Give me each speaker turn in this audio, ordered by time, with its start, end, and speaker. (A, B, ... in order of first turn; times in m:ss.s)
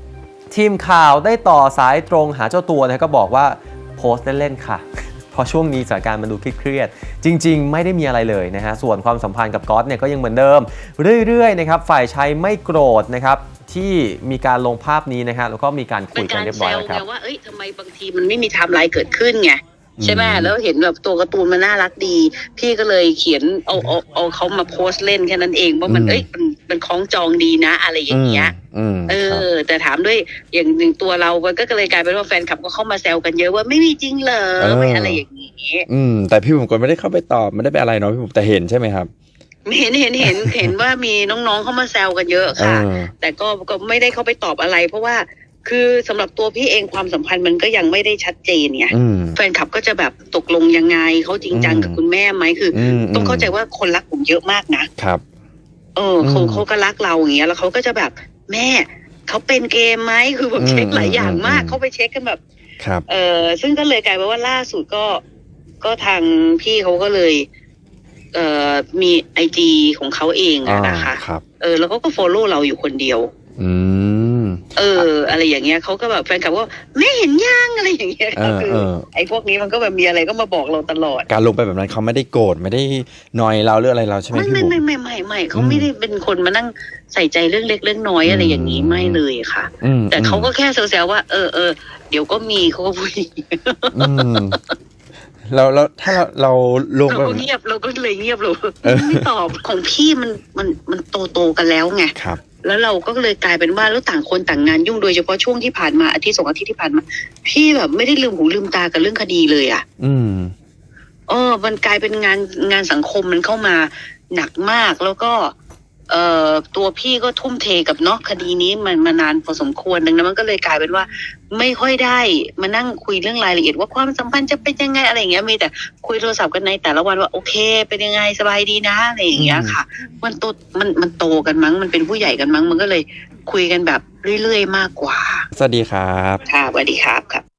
0:00.5-0:17.0 A
0:16.2-0:28.5 B
0:20.0-0:20.5 C
0:25.9-0:26.2 C
0:28.1-0:29.5 C
0:29.1-0:35.9 B
0:34.6-0:35.2 C
0:35.9-0:39.1 C
0:39.7-0:54.9 B
0:40.2-0:40.7 C
0:42.6-0:43.1 C
0:48.9-0:49.4 C
0:51.5-0:52.0 C
0:52.7-0:53.5 C
0:56.0-1:02.4 B
0:56.2-0:56.6 C
1:00.6-1:01.8 C
1:03.1-1:05.2 B
1:05.8-1:07.5 B
1:08.3-1:13.3 B
1:10.6-1:11.4 C
1:13.6-1:14.6 C
1:14.8-1:21.3 B
1:18.4-1:19.0 C
1:21.3-1:24.8 C
1:24.3-1:34.6 B
1:25.5-1:25.9 C
1:28.2-1:29.2 C
1:29.8-1:30.5 C
1:33.9-1:34.6 C
1:35.5-1:37.5 C
1:37.1-1:49.8 B
1:38.8-1:39.2 C
1:42.2-1:42.4 C
1:50.0-1:50.5 C
1:51.3-1:55.6 B
1:56.1-2:15.4 B
2:09.4-2:09.8 C
2:15.5-2:16.4 C
2:16.5-2:17.4 B